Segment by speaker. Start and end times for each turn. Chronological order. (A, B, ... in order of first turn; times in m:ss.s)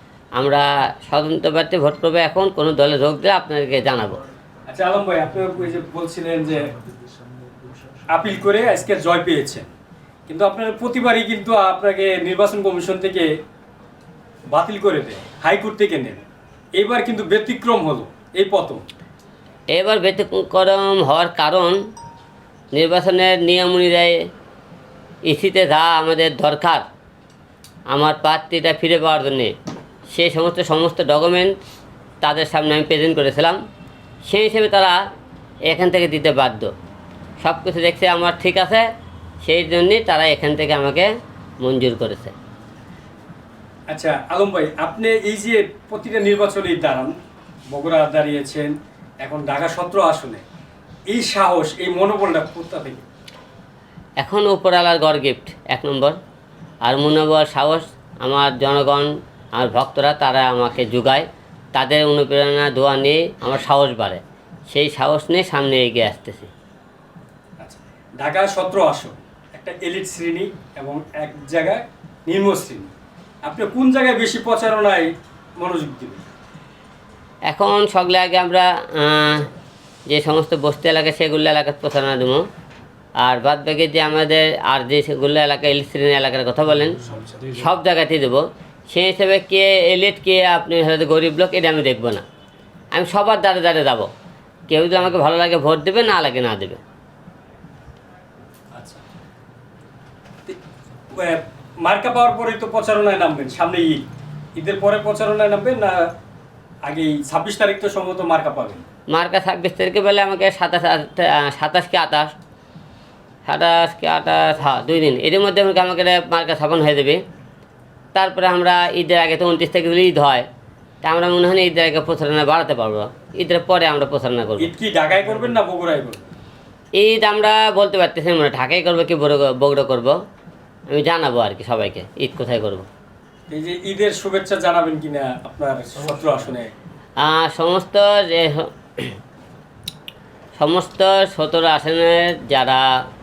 0:00.4-0:04.2 A
0:04.7-0:06.7 B
0:08.1-0:09.7 B
0:10.3-0:13.3 B
0:14.5-0:16.2 B
0:16.8-0:18.8 B
0:19.7-0:21.8 A
0:22.7-0:24.2 A
0:25.2-0:26.8 A
0:27.9-0:29.5 A
0:30.1-0:31.6 A
0:32.2-0:33.6 A
0:34.2-0:35.0 A
0:35.6-0:36.7 A
0:37.4-0:38.9 A
0:39.4-0:42.3 A
0:43.9-0:47.1 B
0:47.7-0:50.4 B
0:51.1-0:53.0 B
0:54.2-0:56.2 A
0:56.8-1:06.5 A
1:07.6-1:12.9 B
1:13.4-1:16.2 B
1:17.5-1:19.5 A
1:20.1-1:22.4 A
1:23.2-1:32.2 A
1:32.9-1:34.1 A
1:34.7-1:36.8 A
1:38.7-1:39.0 B
1:41.1-1:44.0 B
1:44.6-1:46.0 B
1:46.8-1:48.8 B
1:49.1-1:52.3 A
1:53.4-1:57.2 A
1:58.1-2:00.4 A
2:01.0-2:04.7 A
2:04.6-2:06.3 B
2:07.0-2:10.2 A
2:10.9-2:12.9 A
2:13.5-2:16.7 B
2:17.2-2:19.2 A
2:20.6-2:22.9 A